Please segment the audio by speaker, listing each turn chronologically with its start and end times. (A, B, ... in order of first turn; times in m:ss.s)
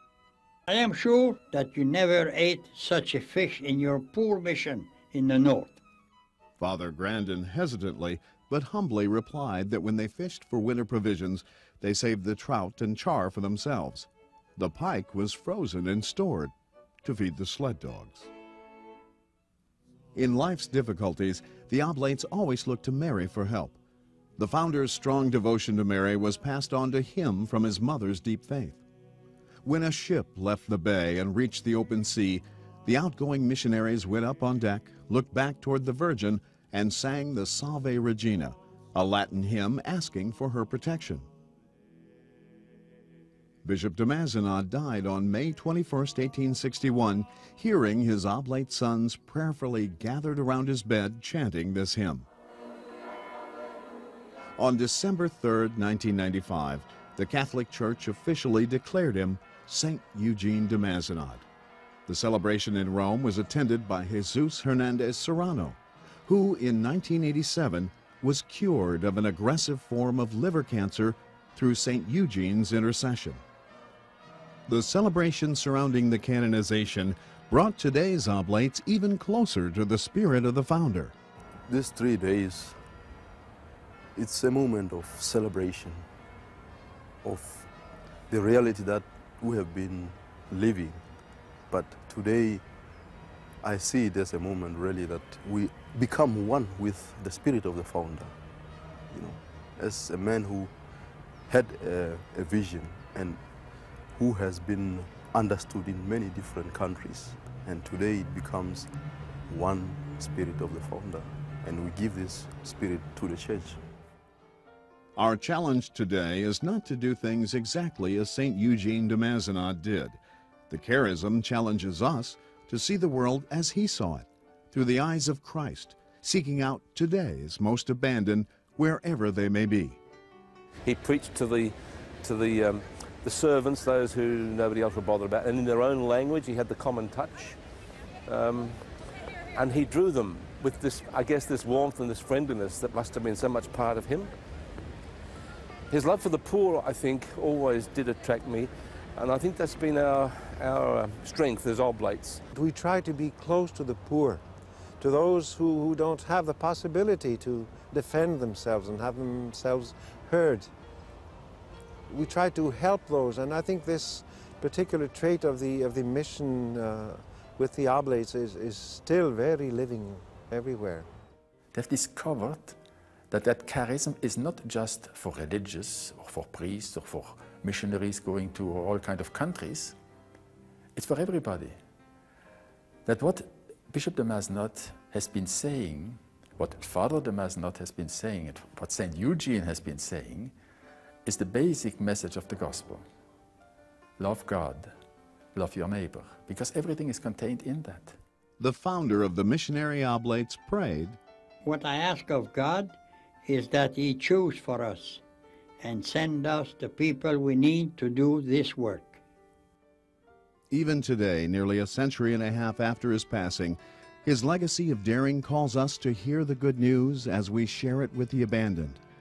0:00.7-0:05.8 A
0:06.6-0:16.5 B
0:17.0-0:18.3 B
0:20.1-0:23.8 B
0:24.4-0:28.8 B
0:29.6-0:41.3 B
0:43.6-0:52.3 B
0:54.6-1:01.4 B
1:02.1-1:13.4 B
1:14.7-1:21.1 B
1:21.7-1:22.8 C
1:24.2-1:26.1 C
1:27.2-1:27.7 C
1:28.3-1:31.0 C
1:31.7-1:32.6 C
1:33.6-1:38.3 C
1:39.1-1:40.7 C
1:41.5-1:43.4 C
1:44.1-1:48.9 C
1:49.5-1:53.8 C
1:55.2-2:10.0 B
2:10.8-2:17.6 D
2:18.3-2:18.9 D
2:19.5-2:24.3 D
2:25.9-2:32.4 D
2:32.5-2:34.4 E
2:35.0-2:40.7 E
2:42.1-2:51.1 E
2:51.7-2:52.7 F
2:53.3-2:59.9 F
3:01.0-3:01.7 F
3:03.0-3:10.5 F
3:11.2-3:13.0 F
3:14.2-3:14.9 F
3:15.5-3:18.2 F
3:18.6-3:21.2 B
3:21.6-3:25.2 A
3:25.8-3:29.2 A
3:30.7-3:39.0 B